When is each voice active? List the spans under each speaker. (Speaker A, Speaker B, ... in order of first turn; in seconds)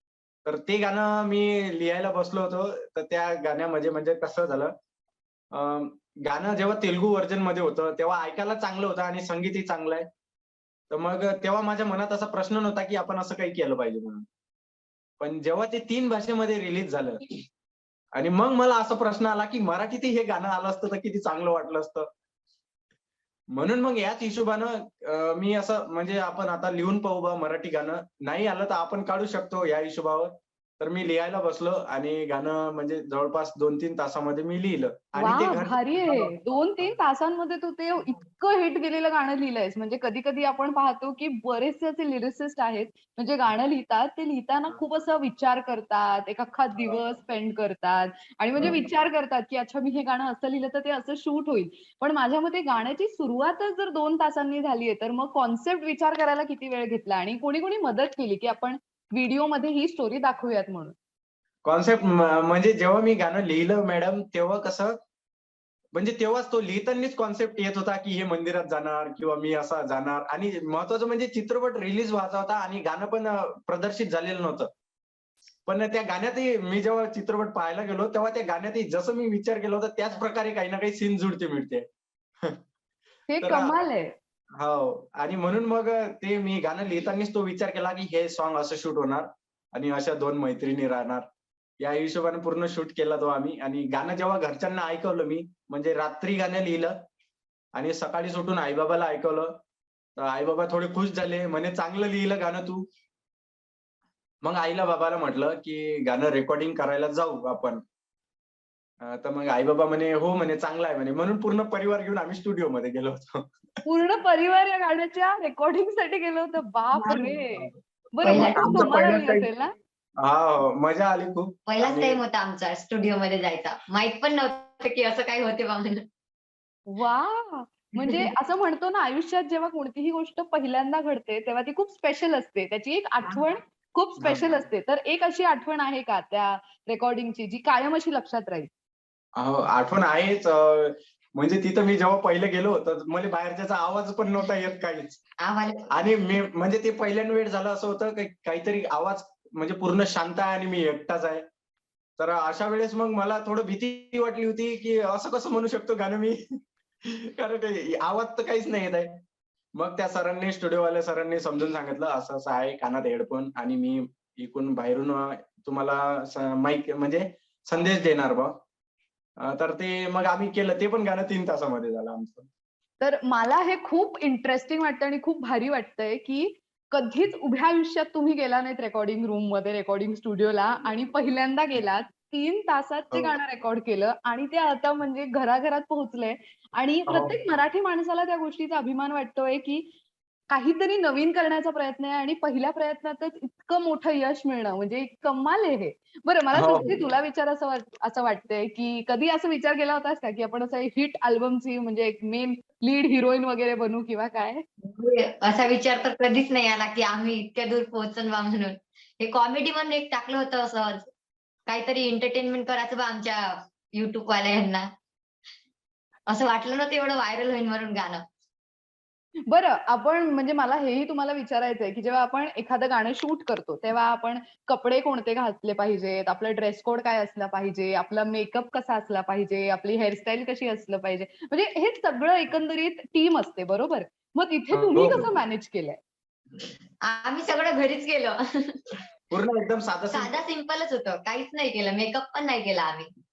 Speaker A: 0.5-4.7, 5.5-10.1, 10.9-14.2, 15.2-17.3, 18.1-22.1, 23.5-36.3, 48.6-48.8, 61.6-65.0, 66.0-74.7, 75.7-81.8, 83.4-83.7, 84.6-91.2, 91.8-97.0, 97.8-99.5, 100.2-102.9, 104.4-107.8, 109.0-113.5, 117.0-117.7, 118.2-119.5, 120.2-122.2, 134.2-134.6, 139.4-145.2, 145.9-151.4, 152.2-156.4, 157.1-159.2, 159.8-168.5, 169.4-172.5, 187.1-187.4, 196.6-197.0, 234.7-235.3, 239.3-240.4
Speaker B: 35.2-61.0, 83.3-84.1, 113.9-119.7, 126.9-138.7, 173.0-189.9, 190.5-204.6, 219.5-236.0
Speaker C: 118.2-118.9, 121.7-126.0, 145.4-145.9, 204.9-211.1, 211.7-214.9, 216.3-218.2, 237.0-238.8, 240.1-243.1